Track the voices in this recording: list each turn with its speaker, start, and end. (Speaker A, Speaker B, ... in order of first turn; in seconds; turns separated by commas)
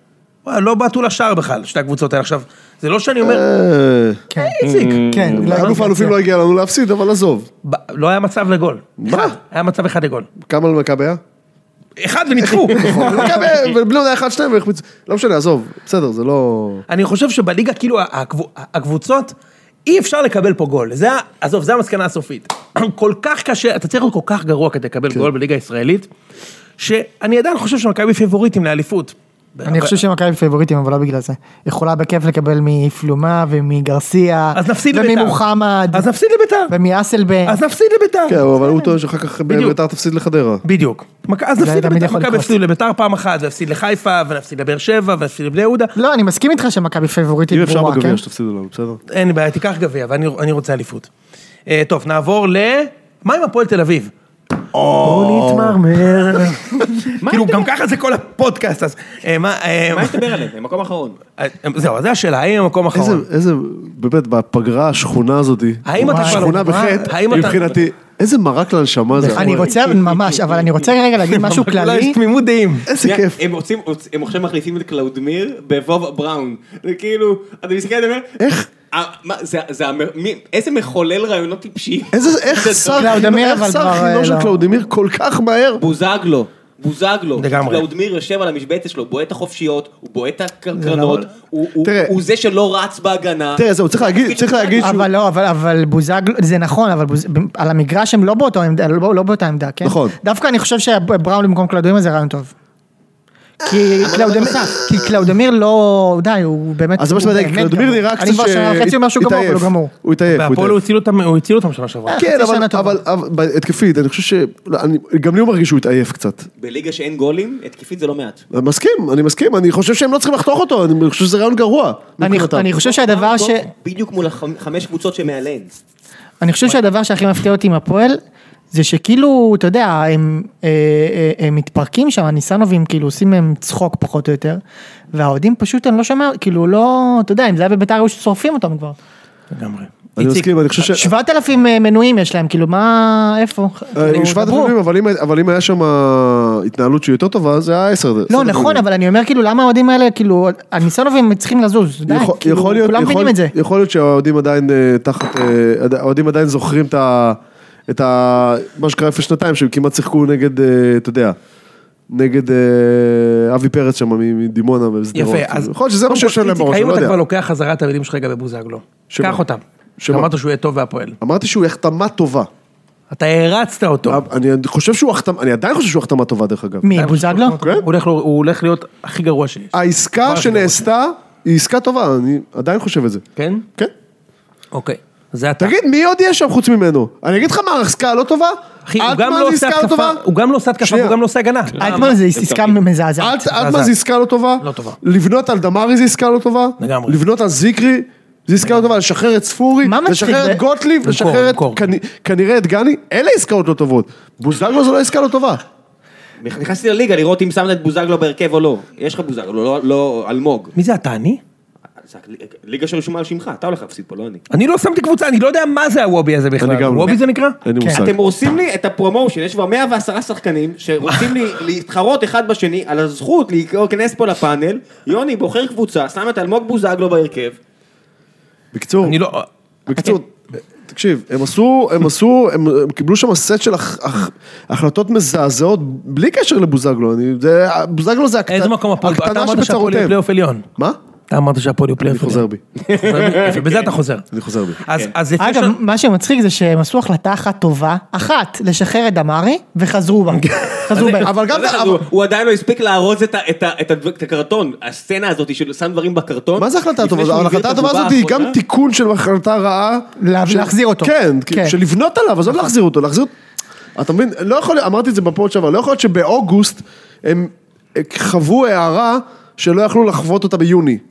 Speaker A: 0.4-3.4, Speaker B: 3.2-4.2, Speaker C: 4.3-6.1, Speaker A: 4.4-5.8, Speaker D: 4.6-5.5, Speaker B: 5.3-7.5, Speaker A: 7.6-10.3, Speaker B: 9.0-9.3, Speaker B: 10.4-11.2, Speaker A: 12.0-13.5, Speaker B: 12.4-16.8, Speaker A: 16.9-19.3, Speaker A: 19.9-26.1, Speaker A: 26.8-29.9, Speaker C: 29.6-36.1, Speaker A: 34.5-35.4, Speaker A: 35.9-36.7, Speaker C: 36.7-37.6, Speaker A: 37.4-38.4, Speaker B: 38.3-40.6, Speaker A: 39.5-39.8, Speaker A: 40.6-45.9, Speaker C: 41.6-42.5, Speaker C: 46.0-48.2, Speaker B: 47.5-49.0, Speaker A: 49.1-51.1, Speaker A: 51.7-54.1, Speaker B: 54.7-55.8, Speaker A: 55.0-60.3, Speaker D: 57.2-57.6, Speaker D: 59.9-61.2, Speaker A: 61.4-63.2, Speaker B: 62.9-69.7, Speaker A: 65.8-67.8, Speaker C: 66.0-67.1, Speaker A: 69.2-69.7, Speaker C: 69.3-72.2, Speaker D: 69.8-70.9, Speaker A: 71.3-72.9, Speaker B: 72.8-73.4, Speaker D: 73.0-78.4, Speaker B: 78.4-78.7, Speaker D: 78.9-83.2, Speaker B: 82.1-85.8, Speaker C: 83.0-84.5, Speaker D: 85.8-94.9, Speaker A: 87.4-87.8, Speaker C: 90.8-91.3, Speaker B: 91.8-92.1, Speaker B: 93.5-95.1, Speaker C: 94.8-102.5, Speaker B: 99.8-100.2, Speaker B: 103.6-105.3, Speaker C: 103.6-109.9, Speaker D: 104.0-104.8, Speaker B: 107.0-110.8, Speaker A: 110.3-112.2, Speaker C: 112.1-113.0, Speaker B: 112.1-116.5, Speaker D: 116.6-118.4, Speaker B: 118.5-122.7, Speaker C: 122.2-123.7, Speaker D: 122.8-125.8, Speaker C: 126.4-128.2, Speaker C: 128.7-134.6, Speaker C: 135.1-138.9, Speaker A: 139.5-140.5, Speaker B: 140.2-141.1, Speaker C: 140.8-144.5, Speaker B: 143.9-148.8, Speaker A: 144.0-144.7, Speaker C: 148.3-153.5, Speaker B: 152.1-161.4, Speaker B: 162.1-167.2, Speaker A: 165.1-171.2, Speaker B: 169.1-169.4, Speaker B: 170.0-170.3, Speaker B: 171.2-172.5, Speaker A: 173.1-174.2, Speaker B: 174.1-176.9, Speaker C: 176.8-177.6, Speaker A: 176.9-180.8, Speaker B: 177.6-177.8, Speaker B: 179.7-183.2, Speaker A: 183.3-183.6, Speaker A: 184.7-185.7, Speaker B: 185.6-190.2, Speaker A: 188.9-192.2, Speaker B: 190.8-191.2, Speaker C: 191.8-193.4, Speaker D: 191.8-192.8, Speaker B: 193.2-205.6, Speaker A: 193.4-193.9, Speaker A: 194.6-195.0, Speaker A: 196.8-197.2, Speaker C: 199.8-200.6, Speaker A: 201.0-201.8, Speaker D: 206.4-210.7, Speaker A: 210.8-211.4, Speaker D: 212.0-214.4, Speaker A: 214.5-217.6, Speaker B: 216.6-218.2, Speaker C: 217.8-218.1, Speaker D: 217.9-227.6, Speaker B: 228.7-229.2, Speaker A: 229.0-230.2, Speaker B: 229.9-240.2, Speaker A: 238.5-240.6, Speaker A: 241.3-244.2, Speaker B: 242.0-242.6, Speaker D: 242.8-243.9, Speaker B: 244.3-244.8, Speaker A: 244.8-245.7, Speaker C: 245.4-251.3, Speaker A: 250.3-251.1, Speaker B: 250.9-252.0, Speaker D: 250.9-258.6, Speaker B: 256.6-263.3, Speaker C: 260.2-261.8, Speaker B: 263.9-271.0